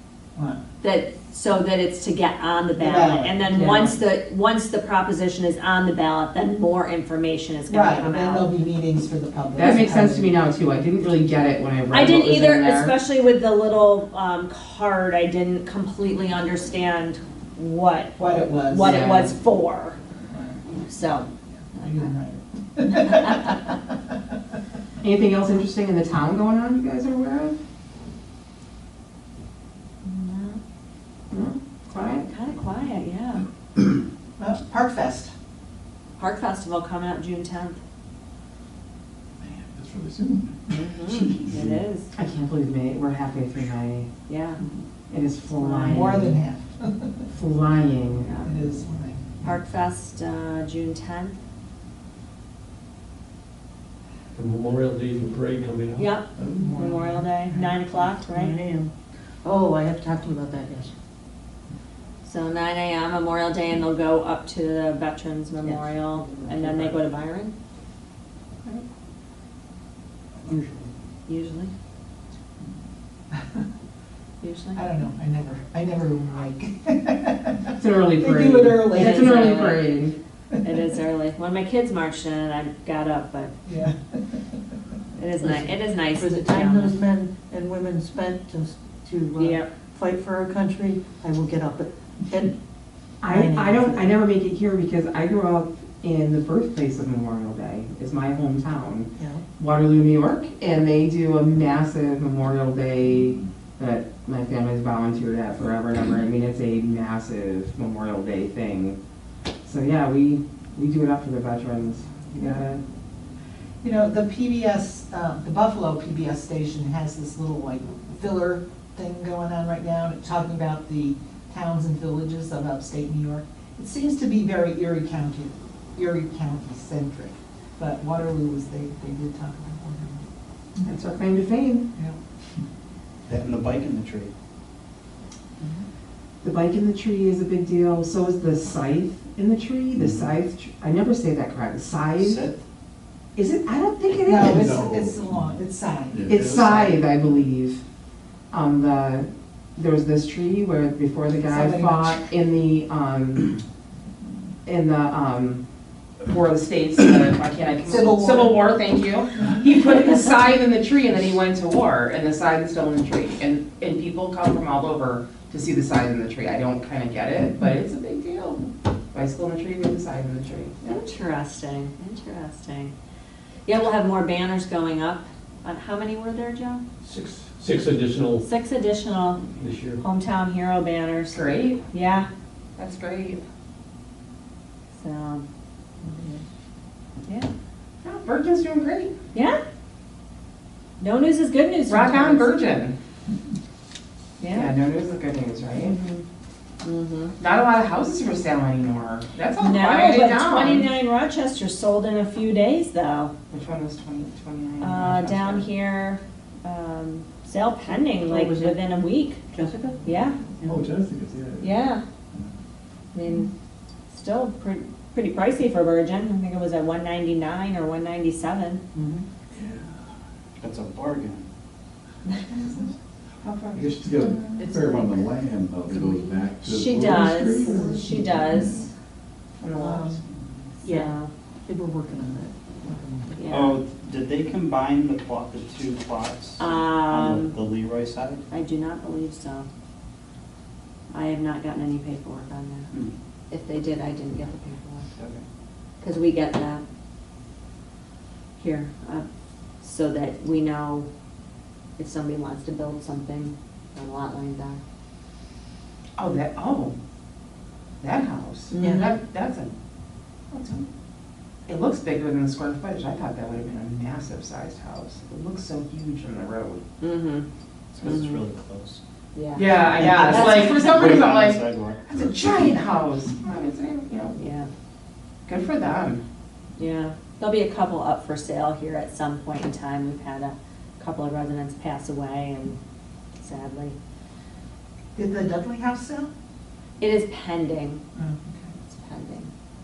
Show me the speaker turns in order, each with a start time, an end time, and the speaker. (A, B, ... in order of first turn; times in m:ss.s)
0:00.8-0:08.5 A
0:02.8-0:03.8 B
0:03.6-0:03.9 C
0:07.7-0:10.3 B
0:09.5-0:13.0 C
0:11.9-0:20.0 A
0:18.2-0:19.0 B
0:18.8-0:19.3 C
0:20.9-0:22.1 A
0:21.8-0:24.0 B
0:22.9-0:23.6 A
0:25.0-0:27.6 C
0:30.0-0:30.6 A
0:31.3-0:32.3 C
0:32.1-0:33.4 A
0:34.4-0:35.3 B
0:36.2-0:37.8 A
0:39.4-0:40.6 D
0:40.7-0:42.1 A
0:41.5-0:41.8 D
0:42.1-0:44.1 C
0:44.3-0:44.6 A
0:45.1-0:46.4 C
0:45.6-0:47.3 B
0:47.3-0:48.3 C
0:48.2-0:48.5 A
0:48.4-0:49.6 B
0:49.4-0:51.4 A
0:54.4-0:56.0 E
0:56.0-0:58.6 A
0:56.5-0:57.8 B
0:58.3-0:58.9 F
0:59.4-1:00.9 F
1:02.2-1:07.6 A
1:05.6-1:07.0 F
1:10.5-1:10.9 F
1:11.3-1:11.7 A
1:13.3-1:13.6 B
1:14.4-1:14.8 A
1:14.8-1:19.6 B
1:17.8-1:20.2 C
1:18.9-1:19.9 A
1:20.6-1:23.5 A
1:23.6-1:24.6 B
1:25.2-1:27.0 A
1:25.4-1:32.6 F
1:29.4-1:29.7 A
1:33.2-1:49.0 C
1:33.3-1:34.1 F
1:39.2-1:39.4 F
1:49.6-1:52.8 C
1:53.8-2:10.3 B
2:10.8-2:11.9 C
2:13.3-2:14.3 G
2:16.4-2:22.5 C
2:22.2-2:22.6 G
2:23.4-2:24.8 C
2:24.2-2:26.3 B
2:24.3-2:25.6 D
2:26.1-2:26.9 D
2:26.3-2:27.8 C
2:28.5-2:33.5 C
2:31.5-2:32.2 B
2:34.6-2:35.6 C
2:36.2-2:51.0 C
2:37.9-2:38.6 B
2:50.8-2:52.9 A
2:53.7-2:56.8 A
2:57.0-2:58.4 E
2:58.4-2:59.5 A
3:00.0-3:02.3 A
3:01.3-3:01.8 C
3:02.8-3:03.4 C
3:05.0-3:05.4 A
3:06.0-3:06.4 F
3:08.0-3:09.1 C
3:09.3-3:09.6 A
3:11.0-3:12.6 A
3:11.9-3:13.0 C
3:14.4-3:14.7 A
3:14.5-3:16.0 C
3:15.8-3:16.2 A
3:16.8-3:17.3 A
3:17.4-3:20.9 C
3:19.6-3:23.3 A
3:23.5-3:25.7 C
3:24.8-3:29.4 A
3:28.2-3:28.8 F
3:29.5-3:30.9 F
3:30.0-3:30.4 A
3:30.6-3:31.8 D
3:31.6-3:32.0 A
3:33.1-3:33.5 A
3:34.1-3:38.8 A
3:38.9-3:39.2 F
3:39.5-3:39.8 D
3:40.6-3:41.5 G
3:42.6-3:42.8 C
3:43.4-3:44.9 C
3:43.7-3:48.9 D
3:46.6-3:48.9 A
3:47.6-3:48.0 C
3:49.6-3:50.4 C
3:49.8-3:50.2 B
3:50.8-3:51.1 F
3:50.9-3:51.3 A
3:51.7-3:53.4 F
3:53.4-3:53.8 A
3:53.5-3:58.4 G
3:56.6-3:57.6 A
3:58.5-3:59.7 A
4:01.1-4:02.9 A
4:03.5-4:05.1 A
4:05.2-4:05.4 G
4:06.0-4:06.8 A
4:08.6-4:09.3 A
4:09.8-4:11.1 A
4:12.0-4:14.8 A
4:16.2-4:17.0 C
4:18.0-4:19.7 C
4:18.8-4:19.0 A
4:20.5-4:20.9 C
4:21.7-4:26.8 C
4:27.0-4:27.5 A
4:27.9-4:29.0 G
4:28.0-4:28.4 A
4:29.4-4:31.2 A
4:29.6-4:34.4 C
4:30.0-4:32.2 G
4:34.4-4:34.7 A
4:35.5-4:36.2 C
4:36.8-4:42.8 A
4:43.4-4:44.0 A
4:45.2-4:46.3 B
4:47.0-4:48.0 A
4:48.2-4:48.7 B
4:48.9-4:49.5 A